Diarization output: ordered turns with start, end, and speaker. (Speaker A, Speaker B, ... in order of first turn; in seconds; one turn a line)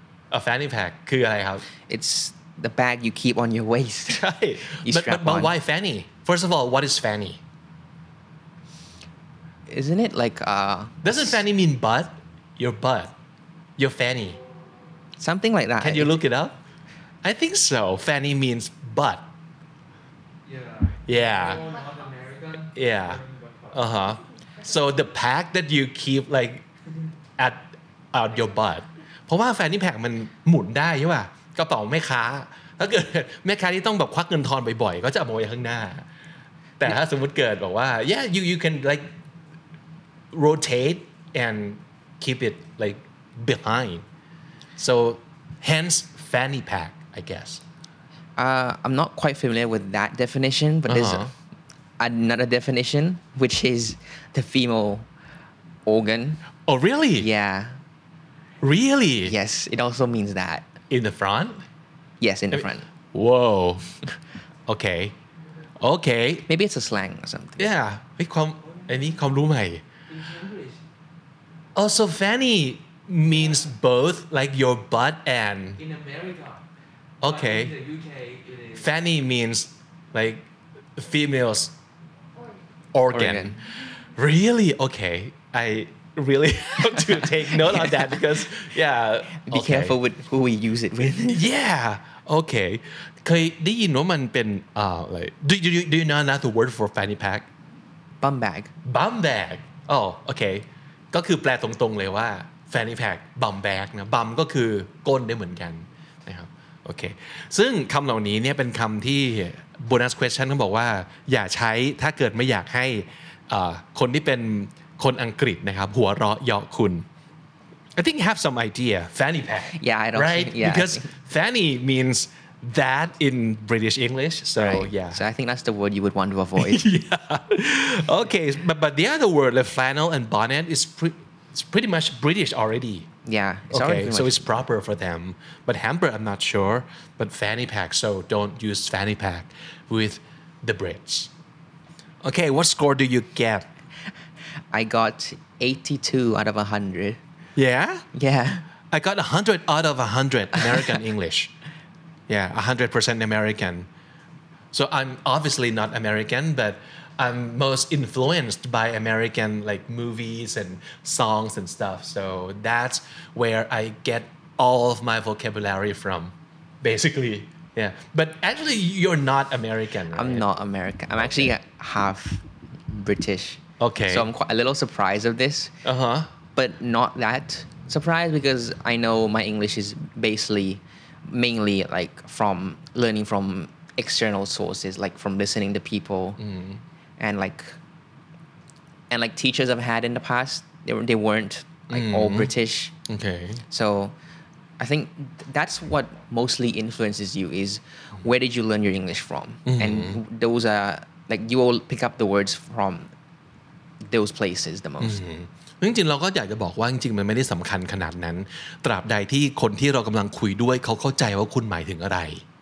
Speaker A: 0.3-1.7
Speaker B: 1.9-5.5
Speaker A: 4.1-7.4
Speaker B: 9.7-11.4
Speaker A: 11.0-13.2
Speaker A: 13.8-14.4
Speaker B: 15.2-16.2
Speaker A: 15.8-16.6
Speaker A: 17.2-19.3
Speaker C: 20.4-23.9
Speaker A: 21.1-21.7
Speaker A: 22.7-26.7
Speaker A: 27.4-36.1
Speaker A: 36.8-39.1
Speaker A: 40.3-44.0
Speaker A: 44.8-47.6
Speaker B: 48.4-51.3
Speaker A: 50.9-51.3
Speaker B: 52.0-55.1
Speaker B: 55.9-56.5
Speaker A: 56.7-57.3
Speaker B: 57.2-57.8
Speaker A: 58.6-59.4
Speaker B: 59.3-60.7
Speaker A: 60.9-61.6
Speaker B: 62.2-62.9
Speaker A: 62.5-63.9
Speaker A: 64.7-65.2
Speaker A: 65.8-66.5
Speaker B: 66.5-67.7
Speaker A: 67.6-69.8
Speaker C: 70.1-70.8
Speaker A: 71.8-75.8
Speaker C: 75.8-76.7
Speaker A: 77.2-77.8
Speaker C: 77.2-78.9
Speaker A: 78.8-81.8
Speaker A: 82.9-90.0
Speaker B: 83.1-83.6
Speaker B: 89.4-91.5
Speaker A: 91.2-97.5
Speaker B: 98.2-98.7
Speaker A: 98.8-117.1
Speaker A: 118.0-125.2
Speaker B: 119.7-121.1
Speaker B: 124.6-126.8
Speaker A: 126.6-133.1
Speaker B: 133.2-134.4
Speaker A: 133.7-141.3
Speaker A: 142.2-143.7
Speaker B: 144.7-147.2
Speaker A: 147.6-148.1
Speaker B: 148.1-148.7
Speaker A: 148.9-151.5
Speaker A: 152.3-153.9
Speaker A: 154.7-170.4
Speaker B: 170.1-175.8
Speaker A: 171.2-171.5
Speaker A: 173.8-174.3
Speaker A: 175.8-176.3
Speaker B: 176.6-186.4
Speaker A: 186.4-186.8
Speaker B: 187.2-187.8
Speaker B: 189.1-192.9
Speaker A: 191.9-192.5
Speaker A: 193.1-193.6
Speaker B: 193.7-194.1
Speaker B: 194.8-203.1
Speaker A: 199.7-200.2
Speaker B: 204.0-205.2
Speaker A: 205.0-212.4